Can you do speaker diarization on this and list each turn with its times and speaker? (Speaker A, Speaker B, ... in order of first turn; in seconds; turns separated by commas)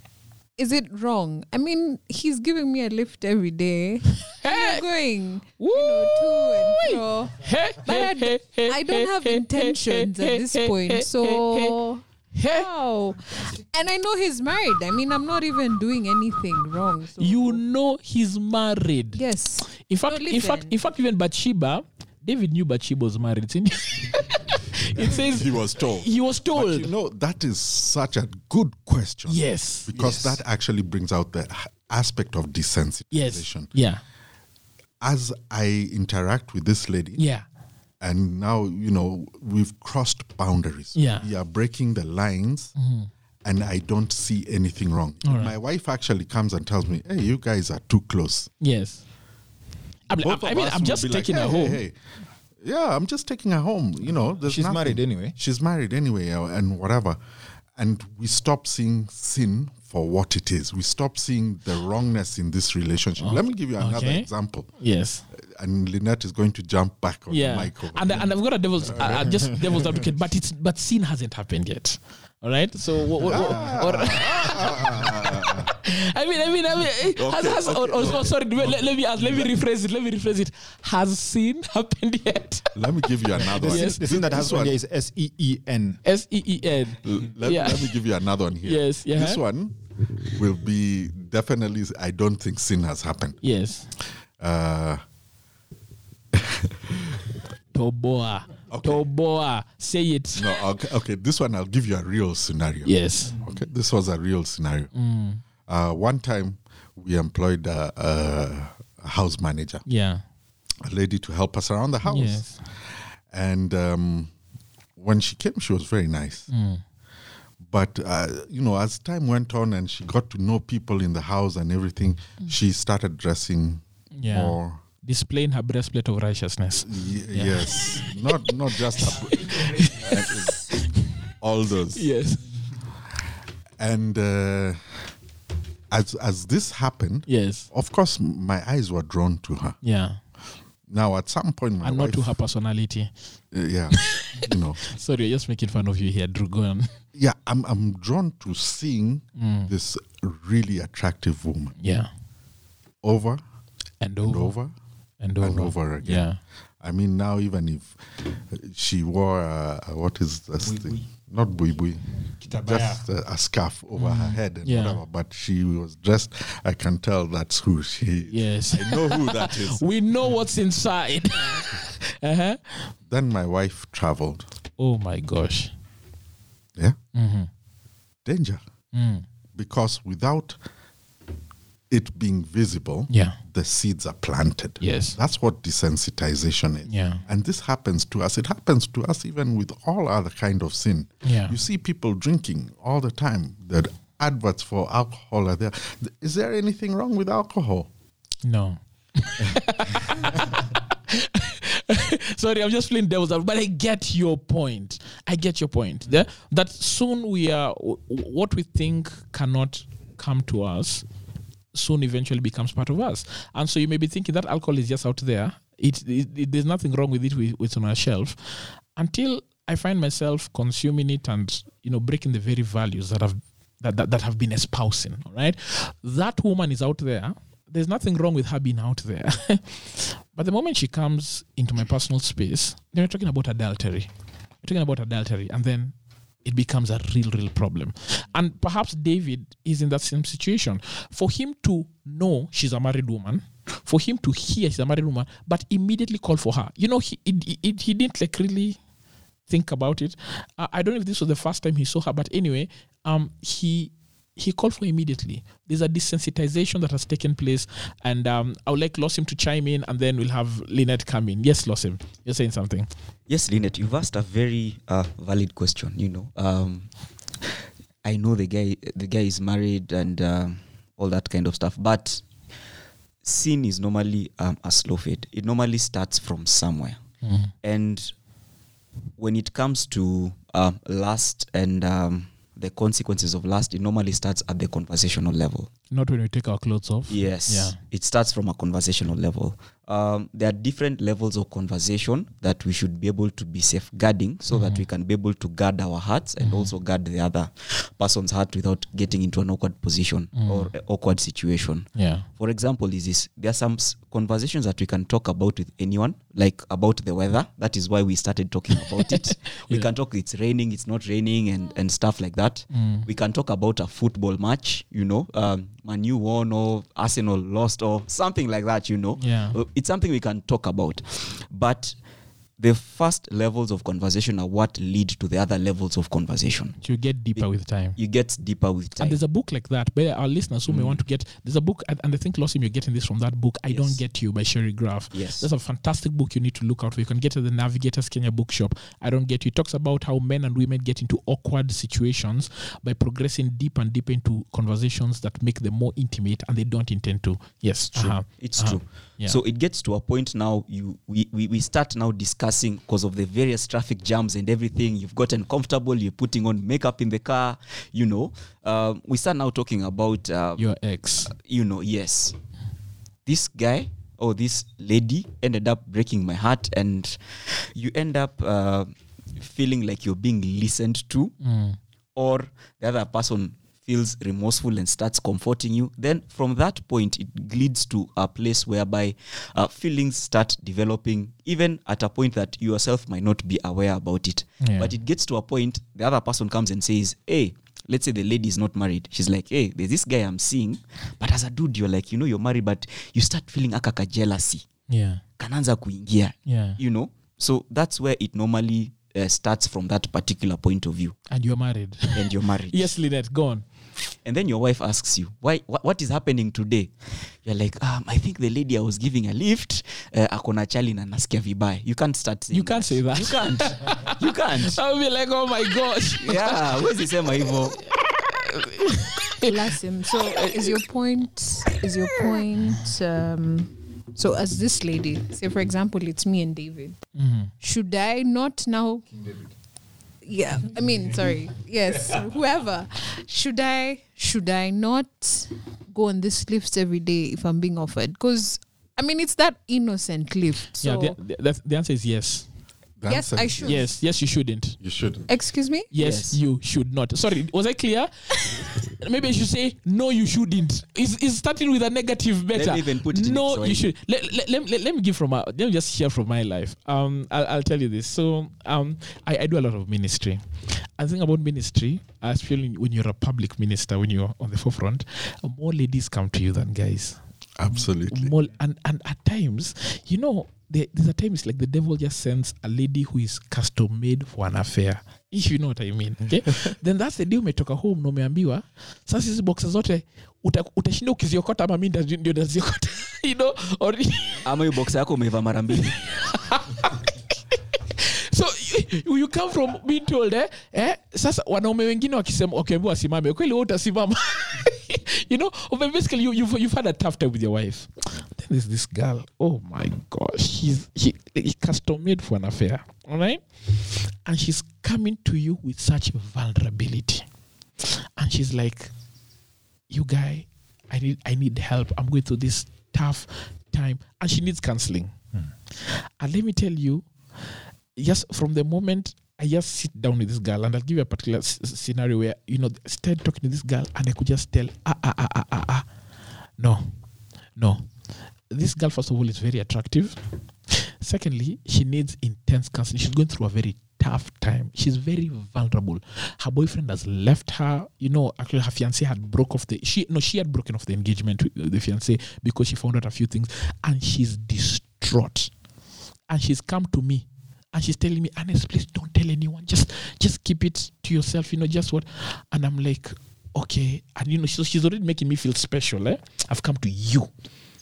Speaker A: 0.6-17.6, Speaker B: 4.2-4.8, Speaker B: 5.6-11.8, Speaker B: 12.3-12.7, Speaker B: 17.2-26.9, Speaker A: 19.1-20.8, Speaker C: 25.0-33.7, Speaker B: 29.3-29.9, Speaker D: 29.9-30.4, Speaker B: 33.1-34.0, Speaker C: 35.0-37.2, Speaker B: 37.2-37.5, Speaker C: 38.0-42.7, Speaker B: 40.9-41.3, Speaker B: 42.8-43.1, Speaker C: 43.4-48.5, Speaker B: 45.2-45.5, Speaker B: 48.6-49.0, Speaker B: 50.1-51.8, Speaker C: 50.2-52.0, Speaker C: 52.6-57.2, Speaker D: 54.4-55.4, Speaker C: 57.8-64.7, Speaker B: 63.2-65.2, Speaker C: 65.3-68.3, Speaker B: 67.3-82.8, Speaker C: 68.8-70.0, Speaker C: 73.2-75.8, Speaker D: 73.3-74.2, Speaker C: 77.2-79.5, Speaker C: 82.7-84.7, Speaker D: 83.3-86.0, Speaker B: 83.5-84.2, Speaker B: 86.0-88.0, Speaker C: 87.0-93.4, Speaker B: 88.6-89.4, Speaker B: 93.4-93.9, Speaker C: 94.4-95.0, Speaker C: 96.3-97.2, Speaker B: 97.7-100.6, Speaker C: 98.7-99.0, Speaker C: 100.3-104.9, Speaker B: 102.8-103.4, Speaker B: 104.9-105.4, Speaker C: 105.7-109.8, Speaker B: 109.8-110.2, Speaker C: 110.8-112.6, Speaker B: 112.0-112.6, Speaker C: 113.3-114.3, Speaker C: 115.0-116.5, Speaker B: 116.5-116.8, Speaker C: 117.6-124.8, Speaker B: 124.1-128.1, Speaker C: 126.8-130.7, Speaker B: 128.7-131.0, Speaker C: 131.4-132.1, Speaker B: 131.9-132.5, Speaker C: 133.8-135.0, Speaker C: 135.9-139.8, Speaker B: 137.3-137.7, Speaker B: 139.8-140.2, Speaker C: 140.9-142.3, Speaker B: 141.8-143.1, Speaker C: 143.5-144.8, Speaker B: 144.0-146.9, Speaker C: 147.1-151.7, Speaker B: 149.3-149.7, Speaker B: 151.8-152.1, Speaker C: 153.0-153.4, Speaker B: 154.0-154.5, Speaker C: 154.2-154.7, Speaker B: 155.2-156.4, Speaker C: 155.4-156.3, Speaker C: 156.8-169.8, Speaker D: 160.6-161.0, Speaker D: 162.4-163.0, Speaker B: 163.9-165.0, Speaker B: 168.3-172.9, Speaker C: 173.1-174.5, Speaker B: 174.8-175.7, Speaker B: 177.1-177.5, Speaker C: 178.2-178.6, Speaker B: 178.9-179.2, Speaker C: 179.6-180.6, Speaker C: 181.9-197.9, Speaker B: 183.1-183.4, Speaker B: 184.8-185.2, Speaker B: 186.9-187.2, Speaker B: 191.2-191.6, Speaker B: 198.4-211.1, Speaker B: 211.7-234.1, Speaker B: 234.6-248.8, Speaker B: 249.5-262.9, Speaker E: 263.3-266.9, Speaker E: 268.0-272.2, Speaker E: 273.2-277.0, Speaker B: 277.2-277.5, Speaker E: 277.6-278.1, Speaker E: 279.2-285.7, Speaker B: 285.9-287.8, Speaker E: 287.1-321.9, Speaker B: 294.5-294.8, Speaker B: 296.4-296.7, Speaker B: 300.4-300.7, Speaker B: 301.9-302.3, Speaker B: 312.7-313.1, Speaker B: 319.2-319.6, Speaker E: 322.6-326.8, Speaker B: 326.8-328.0, Speaker E: 327.9-329.2, Speaker B: 329.0-349.4, Speaker E: 330.7-331.0, Speaker E: 333.7-334.0, Speaker E: 335.1-335.5, Speaker E: 348.0-360.6, Speaker B: 360.6-361.3, Speaker E: 361.2-362.4, Speaker E: 363.2-371.3, Speaker B: 371.4-371.8, Speaker E: 372.1-394.6, Speaker B: 384.6-384.9, Speaker B: 394.9-395.2, Speaker E: 395.4-401.2, Speaker B: 396.4-396.8, Speaker B: 401.3-403.6, Speaker E: 402.1-402.9, Speaker E: 404.2-406.9, Speaker E: 407.4-414.8, Speaker B: 412.5-416.7, Speaker E: 416.2-417.8, Speaker B: 417.8-420.8, Speaker A: 419.4-427.0, Speaker B: 427.1-427.5, Speaker A: 427.6-429.1, Speaker A: 430.2-441.2, Speaker B: 440.8-442.5, Speaker C: 443.0-443.8, Speaker A: 443.1-443.8, Speaker B: 443.6-444.8, Speaker C: 444.8-445.3, Speaker A: 445.3-445.9, Speaker B: 445.9-467.2, Speaker E: 446.0-446.4, Speaker E: 452.5-453.9, Speaker C: 467.6-468.3, Speaker B: 467.7-484.5, Speaker E: 484.4-486.3, Speaker B: 485.8-507.2, Speaker B: 507.8-508.9, Speaker B: 509.9-515.1, Speaker B: 515.7-517.1, Speaker B: 518.0-525.9, Speaker B: 526.6-526.9, Speaker B: 527.5-527.9, Speaker B: 528.5-530.2, Speaker B: 530.7-545.5, Speaker B: 546.3-557.3